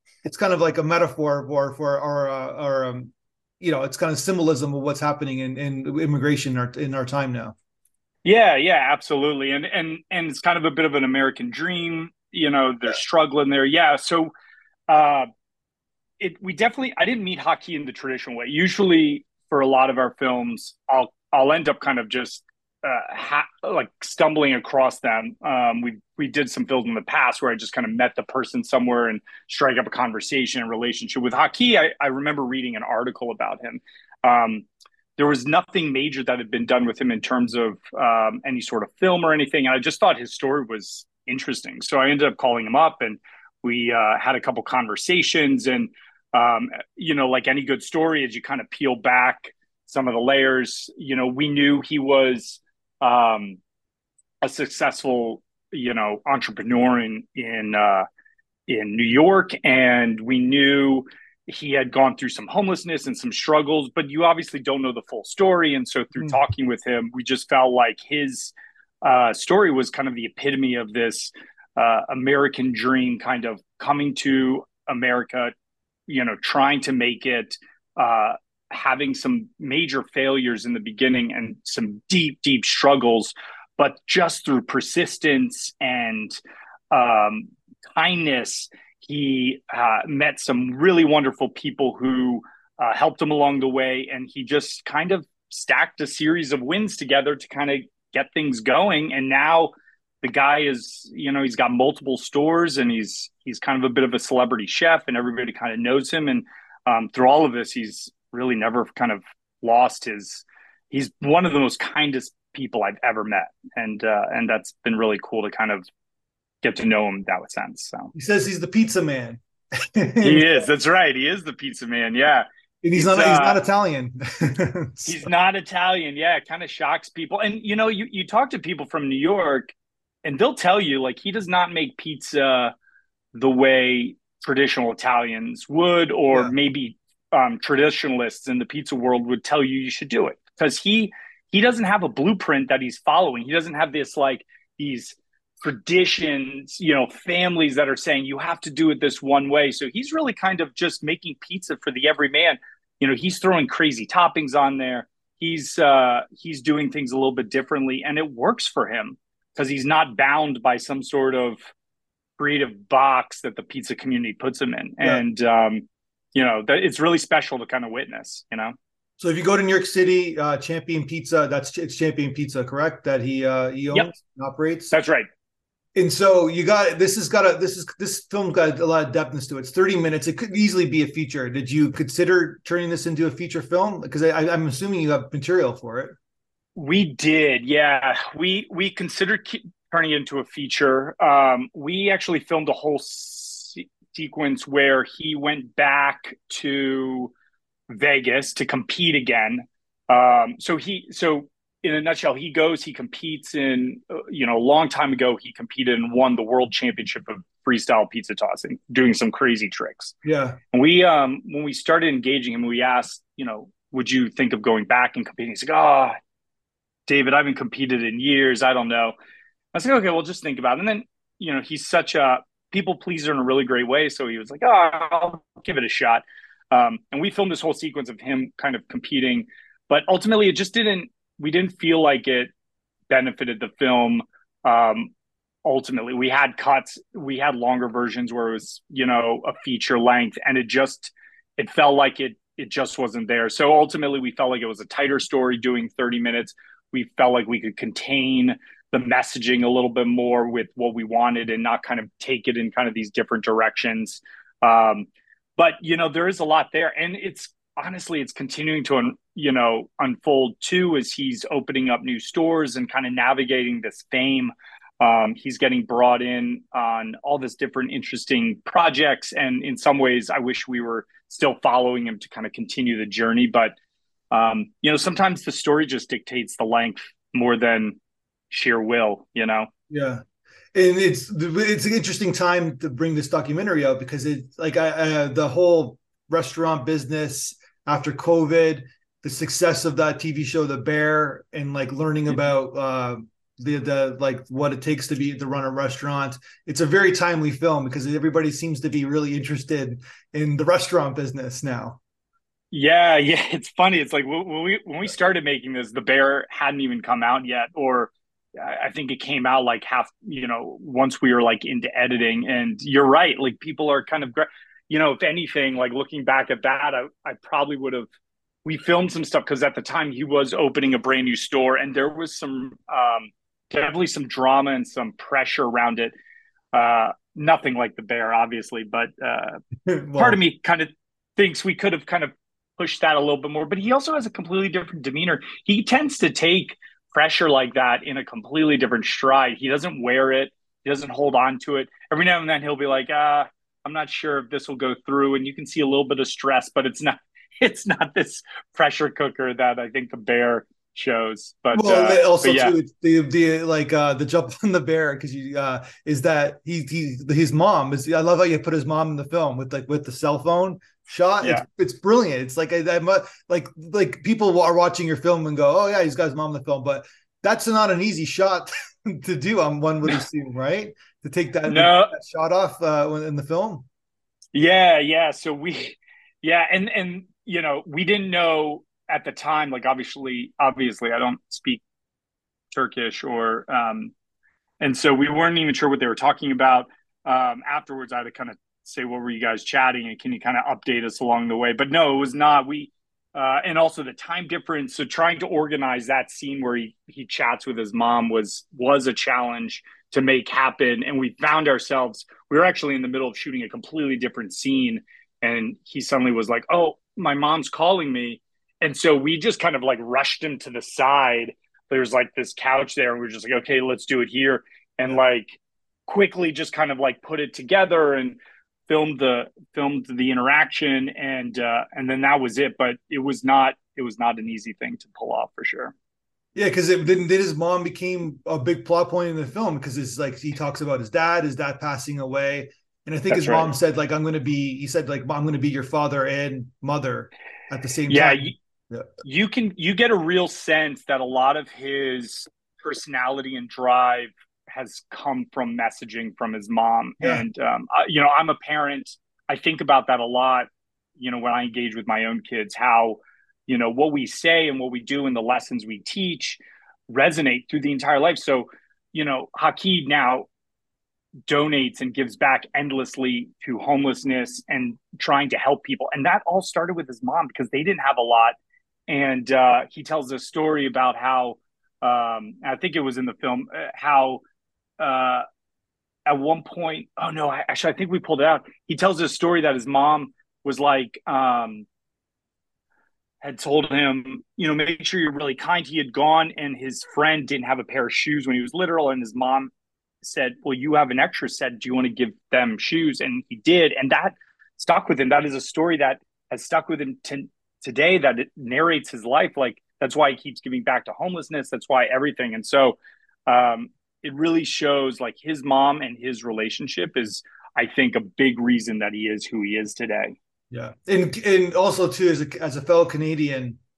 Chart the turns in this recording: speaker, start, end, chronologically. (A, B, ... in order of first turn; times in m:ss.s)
0:00.2-0:07.5 A
0:08.2-0:14.3 B
0:14.9-0:15.3 B
0:16.2-0:34.6 B
0:35.2-0:53.6 B
0:54.4-0:58.0 B
0:58.7-1:15.5 B
1:16.1-1:26.4 B
1:26.9-1:55.8 B
1:56.6-1:58.1 B
1:58.1-2:00.6 A
2:00.2-2:03.6 B
2:02.8-2:05.3 A
2:05.0-2:09.7 B
2:10.2-2:12.7 B
2:13.3-2:41.6 B
2:42.4-2:48.7 B
2:49.2-2:54.9 A
2:54.9-2:55.3 B
2:55.9-3:06.2 A
3:06.8-3:17.3 B
3:17.9-3:30.1 B
3:30.2-3:30.6 A
3:30.7-3:36.2 B
3:37.1-3:39.1 B
3:39.7-3:52.5 B
3:53.1-3:55.1 B
3:55.6-4:33.7 B
4:34.3-4:38.0 B
4:38.5-4:39.7 B
4:39.9-4:40.2 A
4:40.7-5:02.0 A
5:02.7-5:18.1 B
5:18.6-5:26.1 B
5:26.7-5:29.6 B
5:29.8-5:30.4 A
5:30.2-5:52.7 B
5:51.7-6:13.8 A
6:11.7-6:12.1 B
6:14.5-6:21.8 B
6:22.7-6:24.1 B
6:24.8-7:05.9 B
7:06.5-7:19.1 A
7:13.3-7:13.7 B
7:18.1-7:18.5 B
7:19.2-7:40.5 B
7:41.5-7:48.6 B
7:49.1-7:54.4 B
7:55.0-7:55.4 B
7:56.2-8:01.8 B
8:03.4-8:09.7 B
8:10.2-8:30.4 B
8:30.7-8:33.8 A